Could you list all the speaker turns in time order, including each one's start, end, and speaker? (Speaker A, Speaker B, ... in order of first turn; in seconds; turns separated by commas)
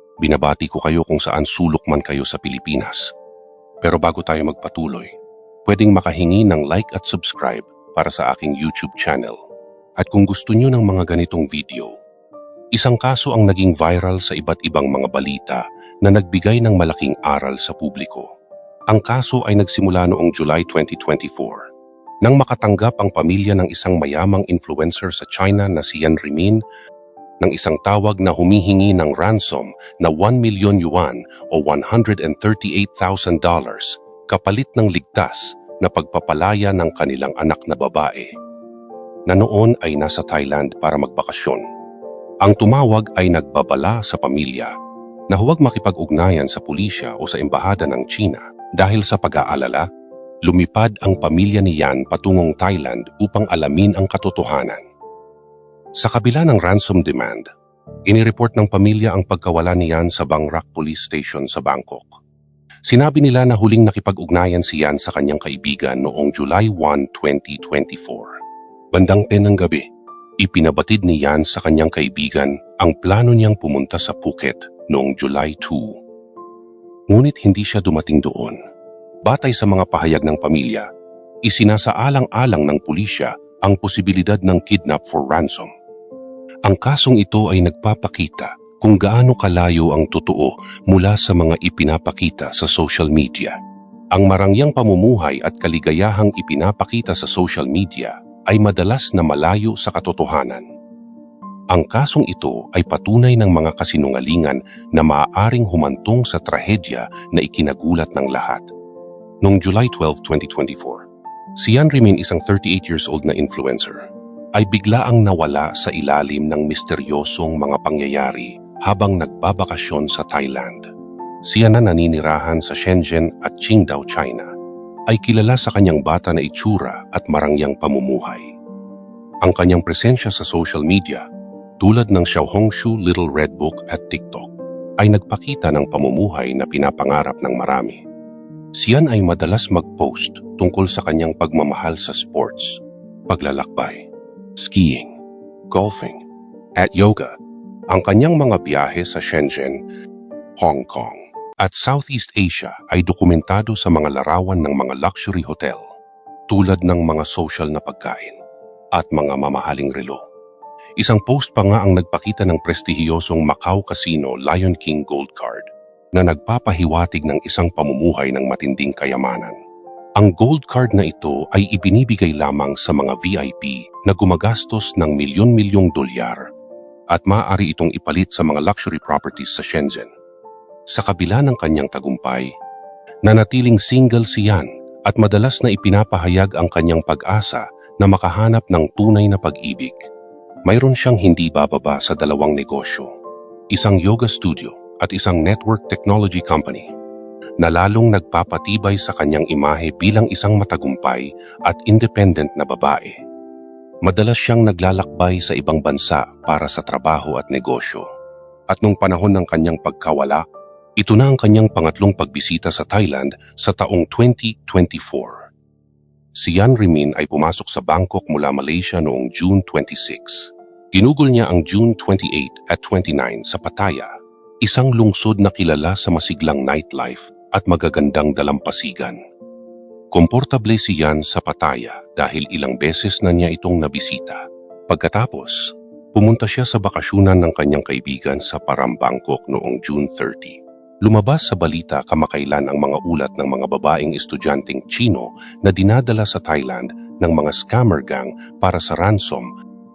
Speaker A: 0.2-3.1, Speaker A: 3.8-5.1, Speaker A: 5.7-9.4, Speaker A: 10.0-11.9, Speaker A: 12.7-18.3, Speaker A: 18.9-21.7, Speaker A: 22.2-26.6, Speaker A: 27.4-38.3, Speaker A: 39.3-41.6, Speaker A: 42.4-44.7, Speaker A: 45.3-49.9, Speaker A: 50.5-54.8, Speaker A: 56.0-57.5, Speaker A: 58.1-62.2, Speaker A: 62.9-68.4, Speaker A: 68.9-69.9, Speaker A: 70.4-76.0, Speaker A: 77.1-78.6, Speaker A: 79.2-80.9, Speaker A: 81.5-85.7, Speaker A: 86.7-93.5, Speaker A: 94.1-100.7, Speaker A: 101.7-108.7, Speaker A: 109.4-111.0, Speaker A: 111.6-120.9, Speaker A: 121.5-124.5, Speaker A: 125.1-128.5, Speaker A: 129.4-131.3, Speaker A: 131.8-138.0, Speaker A: 138.8-145.2, Speaker A: 145.7-146.2, Speaker A: 146.8-147.3, Speaker A: 147.9-149.8, Speaker A: 150.6-155.8, Speaker A: 156.5-158.4, Speaker A: 158.9-160.2, Speaker A: 161.0-169.6, Speaker A: 170.2-176.5, Speaker A: 177.1-180.1, Speaker A: 180.9-182.5, Speaker A: 183.2-190.1, Speaker A: 190.7-193.1, Speaker A: 193.7-196.9, Speaker A: 197.6-203.2, Speaker A: 204.0-208.1, Speaker A: 208.7-210.4, Speaker A: 211.0-215.5, Speaker A: 216.3-224.1, Speaker A: 224.6-229.2, Speaker A: 230.1-249.5